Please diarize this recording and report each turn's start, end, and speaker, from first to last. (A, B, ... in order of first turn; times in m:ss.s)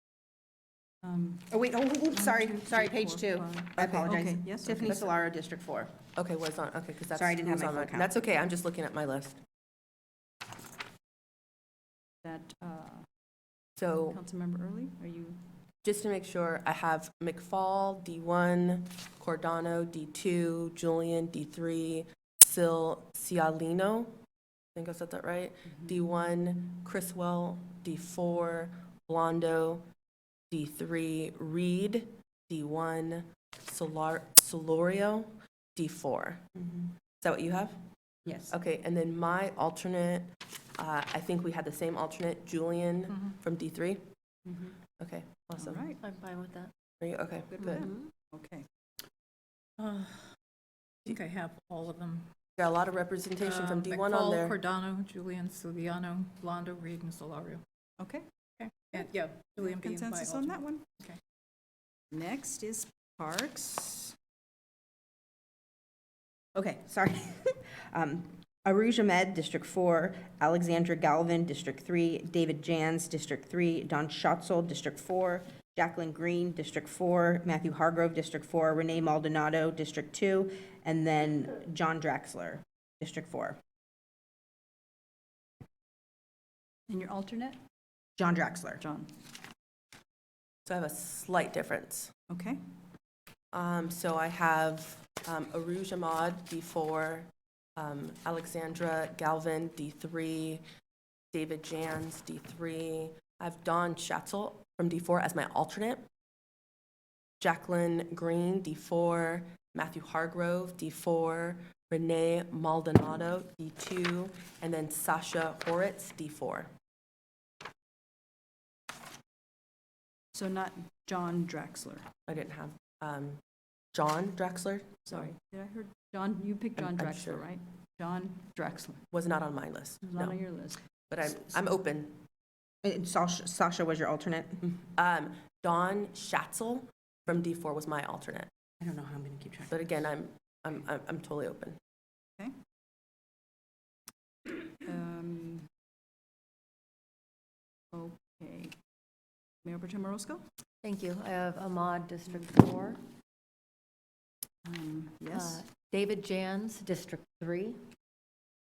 0:01.0-0:01.6 A
0:01.5-0:05.9 B
0:02.1-0:05.0 A
0:04.8-0:05.1 C
0:06.1-0:09.4 C
0:07.1-0:08.1 B
0:12.2-0:13.0 A
0:13.8-0:14.2 C
0:14.0-0:15.4 A
0:15.8-0:24.1 C
0:24.7-0:29.9 C
0:30.5-0:36.5 C
0:36.6-0:36.8 B
0:37.2-0:37.8 C
0:38.2-0:38.5 B
0:38.5-0:44.0 C
0:43.1-0:43.3 D
0:45.0-0:45.8 C
0:45.6-0:46.0 A
0:46.0-0:46.7 E
0:47.0-0:47.9 C
0:47.5-0:48.6 A
0:47.6-0:48.1 E
0:49.8-0:50.3 D
0:51.0-0:52.3 D
0:52.6-0:54.5 C
0:53.4-0:57.6 D
0:58.0-0:58.3 A
0:58.6-1:01.2 D
0:59.6-1:00.9 A
1:02.1-1:04.2 A
1:06.5-1:23.6 B
1:26.9-1:27.6 A
1:28.2-1:28.8 B
1:28.8-1:29.1 A
1:30.6-1:32.1 C
1:32.3-1:32.6 A
1:33.5-1:40.6 C
1:41.3-1:46.0 C
1:47.4-1:56.7 C
2:00.3-2:02.1 A
2:02.3-2:03.4 C
2:03.9-2:05.2 C
2:05.1-2:09.0 A
2:06.8-2:07.4 C
2:09.1-2:10.4 C
2:10.0-2:10.8 A
2:11.1-2:12.2 C
2:12.8-2:14.6 B
2:14.6-2:18.5 C
2:18.8-2:19.8 B
2:19.7-2:21.8 C
2:24.8-2:25.7 A
2:27.9-2:28.7 A
2:29.6-2:30.4 A
2:30.8-2:33.0 E
2:34.6-2:35.6 A
2:35.3-2:37.8 E